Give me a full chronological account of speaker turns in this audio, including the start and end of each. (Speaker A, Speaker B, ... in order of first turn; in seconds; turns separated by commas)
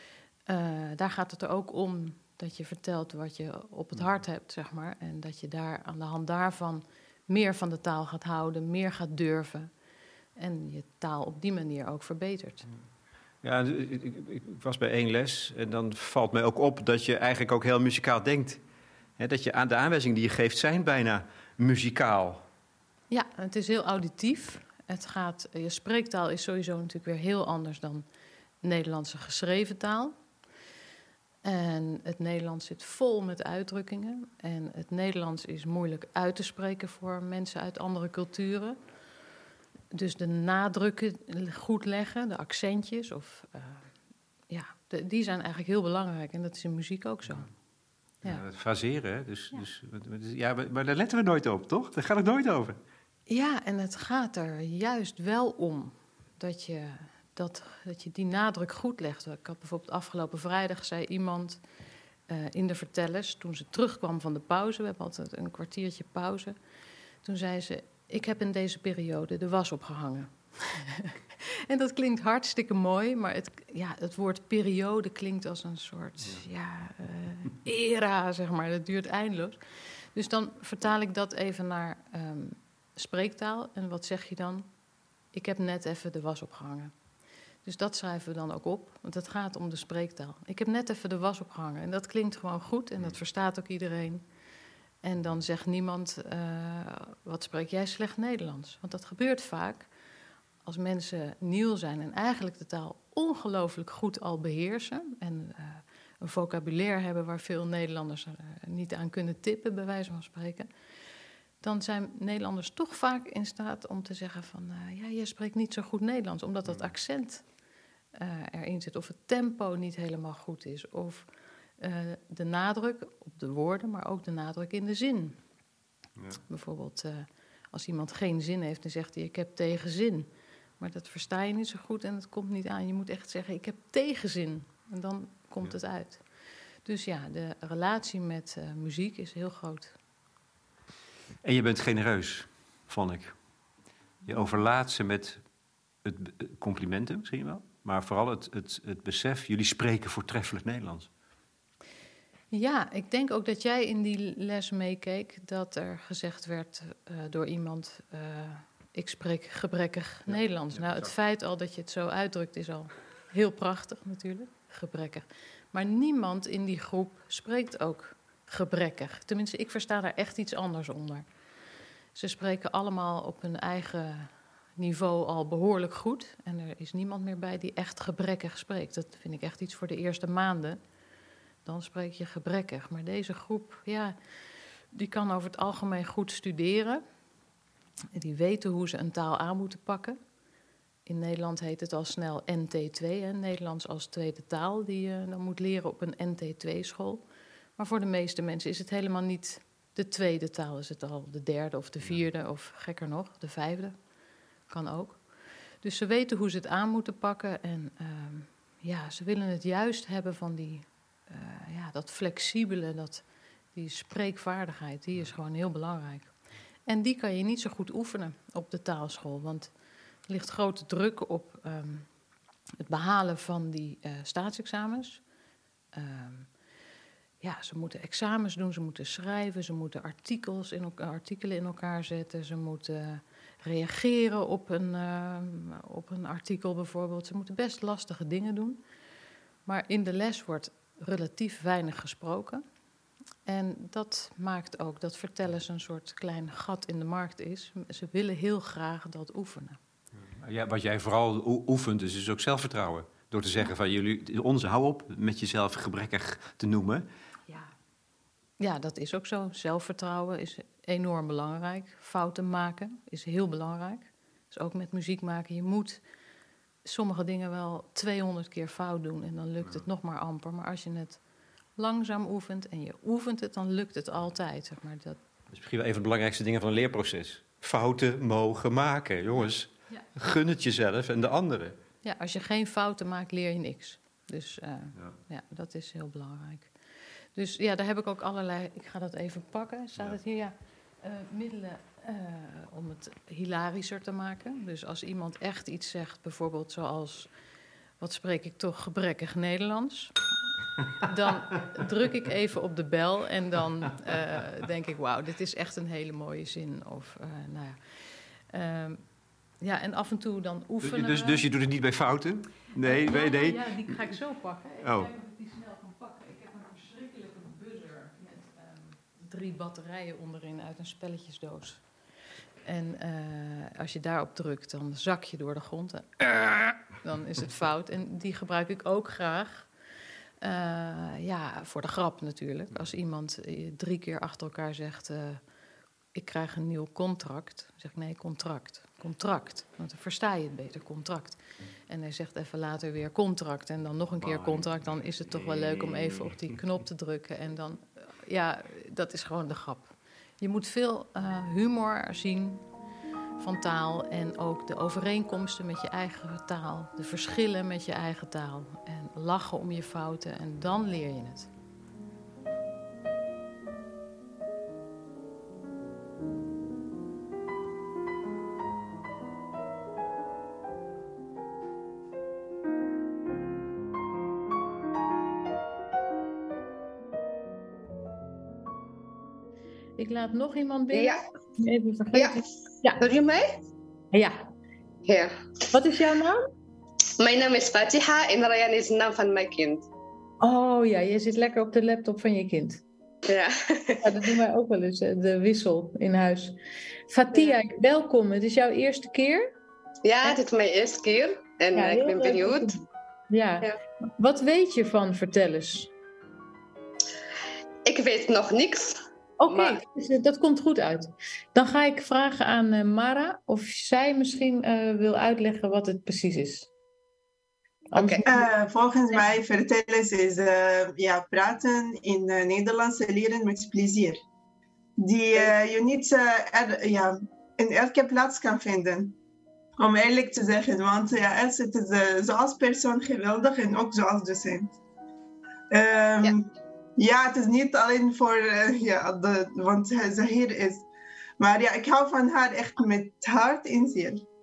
Speaker A: 0.5-9.7, Speaker A: 10.4-12.6, Speaker B: 13.4-18.6, Speaker B: 19.2-22.4, Speaker A: 23.1-28.1, Speaker A: 28.6-30.1, Speaker A: 31.4-38.8, Speaker A: 39.9-43.9, Speaker A: 44.5-47.5, Speaker B: 48.2-52.8, Speaker A: 53.3-61.6, Speaker A: 62.3-66.5, Speaker A: 67.2-79.6, Speaker B: 76.2-76.4, Speaker A: 80.1-84.7, Speaker A: 85.3-86.9, Speaker A: 87.6-94.2, Speaker A: 95.0-99.9, Speaker A: 100.6-110.7, Speaker A: 111.6-117.4, Speaker B: 116.6-116.9, Speaker A: 118.2-121.3, Speaker A: 121.8-125.4, Speaker A: 126.5-130.3, Speaker A: 130.8-136.2, Speaker A: 136.8-139.9, Speaker B: 141.4-143.3, Speaker B: 144.2-145.4, Speaker B: 146.0-151.1, Speaker A: 152.5-171.2, Speaker B: 160.3-161.1, Speaker A: 172.1-180.8, Speaker A: 181.6-184.2, Speaker A: 184.9-187.0, Speaker A: 188.1-190.2, Speaker A: 191.1-197.2, Speaker A: 197.8-203.9, Speaker A: 204.7-205.2, Speaker A: 205.8-216.3, Speaker A: 216.9-219.7, Speaker A: 220.3-222.1, Speaker A: 222.8-225.2, Speaker A: 225.9-226.5, Speaker A: 227.4-238.8, Speaker A: 239.7-242.6, Speaker A: 243.4-249.8, Speaker B: 250.2-257.1, Speaker A: 258.6-266.0, Speaker A: 266.8-271.2, Speaker A: 271.8-275.2, Speaker B: 275.5-281.8, Speaker A: 282.0-286.7, Speaker A: 287.3-297.3, Speaker A: 298.0-300.2, Speaker A: 301.0-309.0, Speaker A: 309.6-311.4, Speaker B: 310.8-314.0, Speaker A: 312.8-321.8, Speaker B: 314.8-315.1, Speaker A: 322.6-326.3, Speaker A: 327.0-329.7, Speaker A: 330.4-335.4, Speaker A: 336.1-352.6, Speaker B: 344.2-346.6, Speaker A: 353.4-361.5, Speaker A: 380.0-383.0, Speaker C: 380.9-381.2, Speaker C: 382.1-382.4, Speaker C: 383.0-383.5, Speaker A: 384.1-384.4, Speaker C: 385.0-385.3, Speaker A: 385.7-386.4, Speaker C: 387.2-389.9, Speaker A: 390.4-392.8, Speaker C: 393.3-394.3, Speaker A: 394.0-396.6, Speaker A: 397.1-399.5, Speaker C: 400.0-402.7, Speaker A: 401.7-402.7, Speaker A: 403.3-405.9, Speaker C: 407.9-409.8, Speaker A: 409.4-416.7, Speaker A: 417.9-418.3, Speaker D: 418.2-424.2, Speaker D: 425.0-429.1, Speaker D: 429.8-434.7, Speaker D: 435.7-440.9, Speaker D: 441.4-444.2